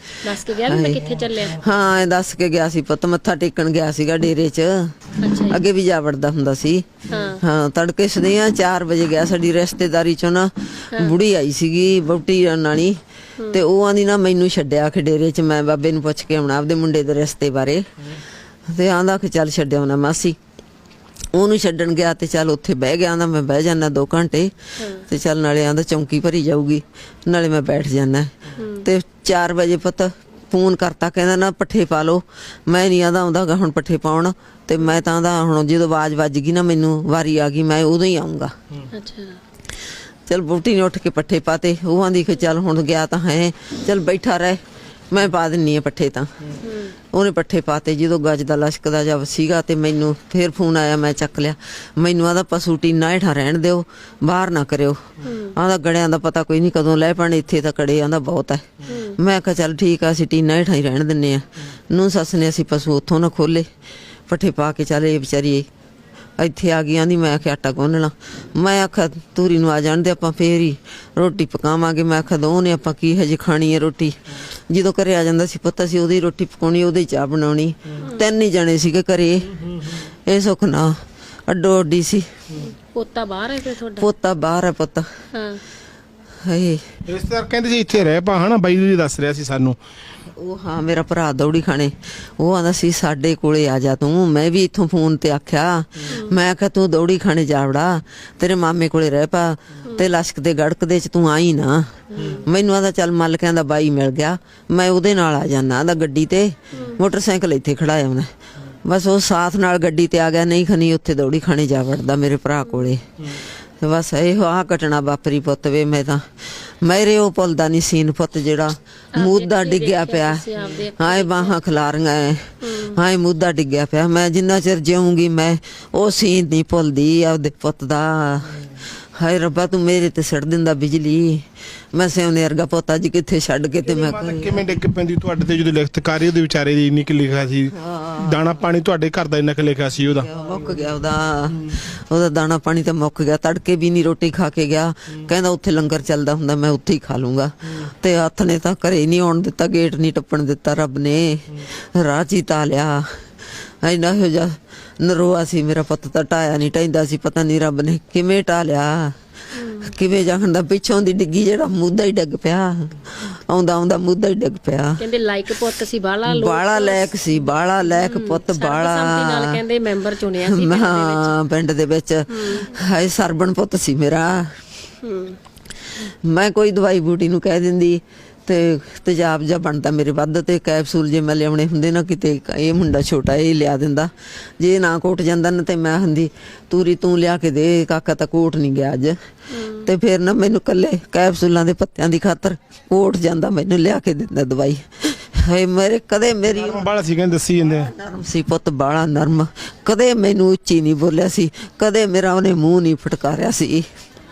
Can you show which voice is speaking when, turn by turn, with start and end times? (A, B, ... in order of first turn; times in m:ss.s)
0:00.2-0:01.6 A
0:00.5-0:13.0 B
0:05.2-0:05.7 A
0:07.1-0:07.4 A
0:10.9-0:11.2 A
0:13.5-0:17.8 B
0:18.7-0:20.4 B
0:21.3-0:24.5 B
0:24.8-0:25.0 A
0:25.1-0:38.5 B
0:28.6-0:28.9 A
0:38.9-0:39.4 A
0:40.3-0:44.6 B
0:45.1-0:46.3 B
0:46.6-0:47.0 A
0:47.1-0:55.0 B
0:55.2-0:55.6 A
0:55.6-1:03.7 B
0:58.9-0:59.2 A
1:04.3-1:05.6 B
1:06.4-1:14.2 B
1:14.7-1:22.3 B
1:22.6-1:24.1 A
1:24.0-1:25.0 B
1:25.3-1:25.6 A
1:26.4-1:26.8 B
1:27.1-1:29.8 C
1:30.4-1:48.3 B
1:36.1-1:36.4 A
1:42.1-1:42.4 A
1:42.2-1:42.4 C
1:48.8-2:00.4 B
1:59.1-2:01.6 A
2:01.0-2:08.6 B
2:02.6-2:03.0 A
2:09.2-2:11.4 B
2:11.9-2:14.7 B
2:13.8-2:20.3 C
2:17.8-2:18.5 B
2:20.2-2:33.2 B
2:33.7-2:39.1 B
2:39.5-2:39.9 A
2:39.8-2:45.0 B
2:45.0-2:51.4 A
2:46.3-2:49.6 B
2:50.4-2:54.6 B
2:52.3-2:52.8 A
2:55.0-2:55.4 A
2:56.0-3:09.2 B
3:09.5-3:09.9 A
3:09.8-3:16.8 B
3:16.5-3:17.9 C
3:17.7-3:23.8 B